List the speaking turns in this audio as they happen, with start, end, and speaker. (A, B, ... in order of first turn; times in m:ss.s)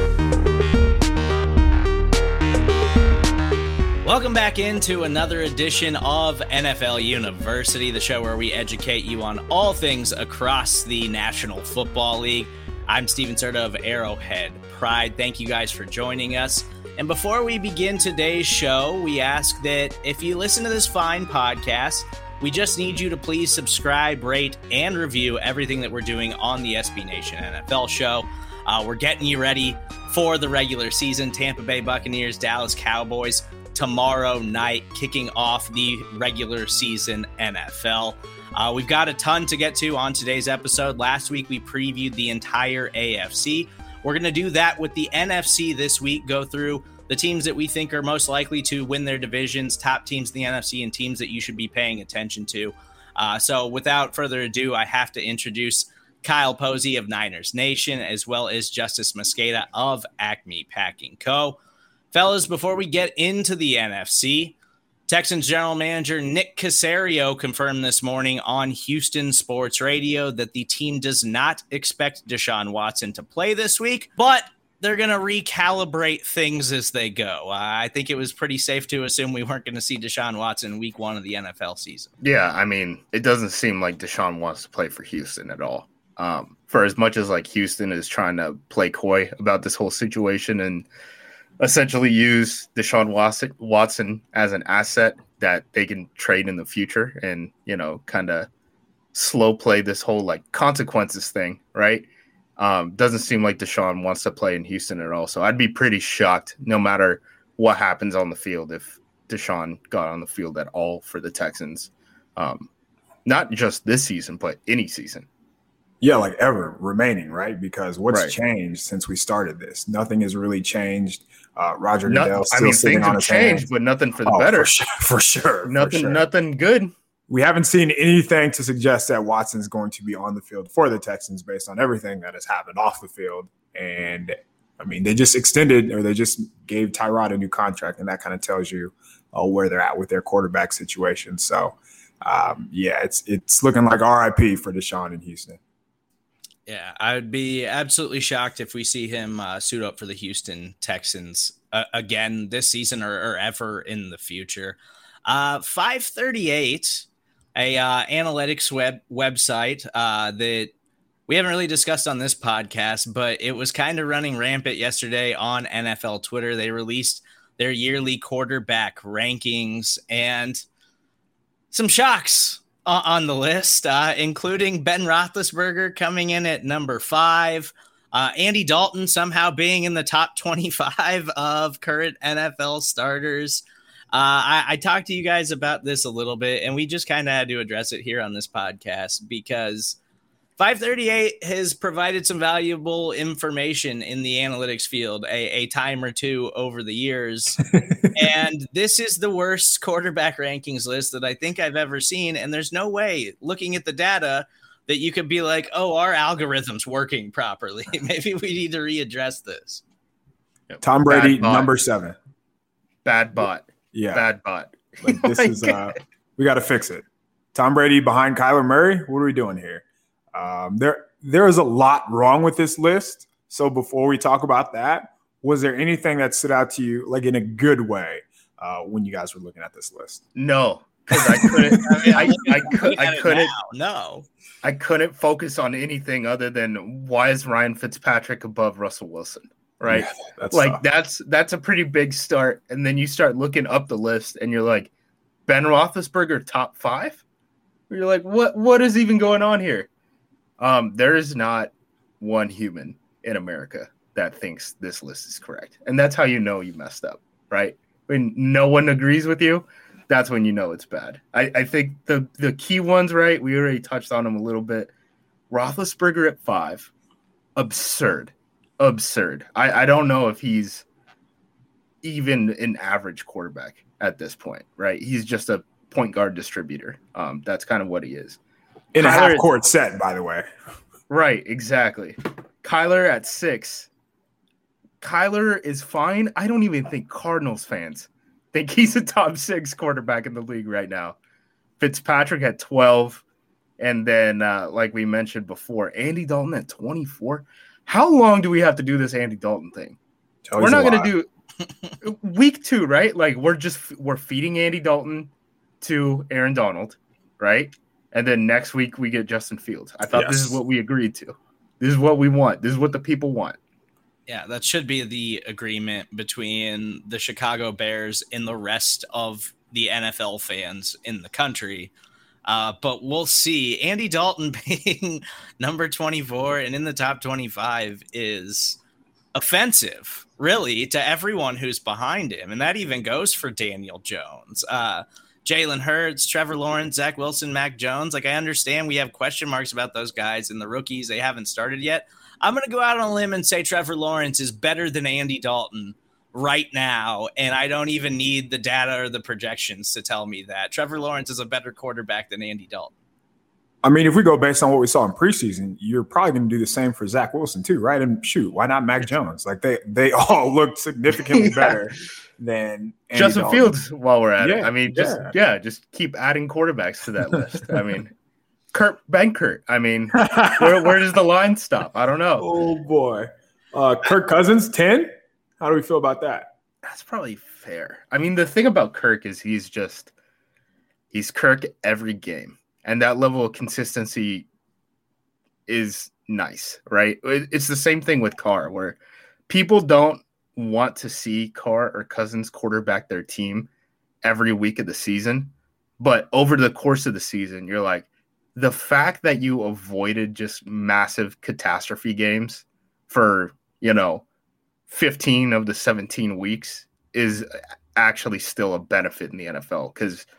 0:04.0-1:01.6 A
1:02.1-1:04.6 A
1:05.1-1:22.1 A
1:22.2-1:30.9 B
1:31.6-1:38.5 B
1:39.1-1:52.7 B
1:53.2-1:55.3 B
1:56.0-2:03.7 C
2:02.1-2:04.7 B
2:04.2-2:06.3 C
2:05.6-2:06.9 B
2:07.3-2:25.6 C
2:26.7-2:40.7 A
2:41.3-2:50.6 A
2:51.7-3:10.0 A
3:10.6-3:29.8 A
3:17.7-3:18.3 C
3:30.7-3:31.7 B
3:30.8-3:32.2 C
3:33.0-3:35.9 B
3:33.9-3:34.2 C
3:35.0-3:50.2 C
3:50.3-3:53.5 B
3:51.2-3:52.4 C
3:51.9-3:54.2 A
3:54.6-4:04.9 B
3:59.9-4:00.8 C
4:05.5-4:07.2 B
4:07.9-4:09.9 B
4:10.6-4:24.9 B
4:25.5-4:26.9 B
4:27.6-4:30.8 B
4:32.0-4:38.4 B
4:38.9-4:40.5 C
4:39.0-4:39.5 B
4:41.1-4:43.9 B
4:45.0-4:51.2 B
4:51.8-4:53.2 B
4:53.8-5:00.0 B
5:00.4-5:01.1 C
5:00.6-5:01.3 B
5:02.0-5:05.3 B
5:05.8-5:13.6 B
5:10.1-5:10.6 C
5:14.3-5:21.9 A
5:22.4-5:28.8 A
5:29.3-5:52.9 A
5:53.8-6:03.8 C
6:01.3-6:01.8 B
6:03.1-6:08.1 B
6:04.4-6:05.3 C
6:07.3-6:07.8 C
6:08.7-6:12.5 B
6:10.2-6:10.9 C
6:12.4-6:16.5 C
6:16.8-6:20.1 B
6:21.1-6:24.5 B
6:25.7-6:33.7 B
6:34.2-6:44.2 B
6:44.9-6:50.2 B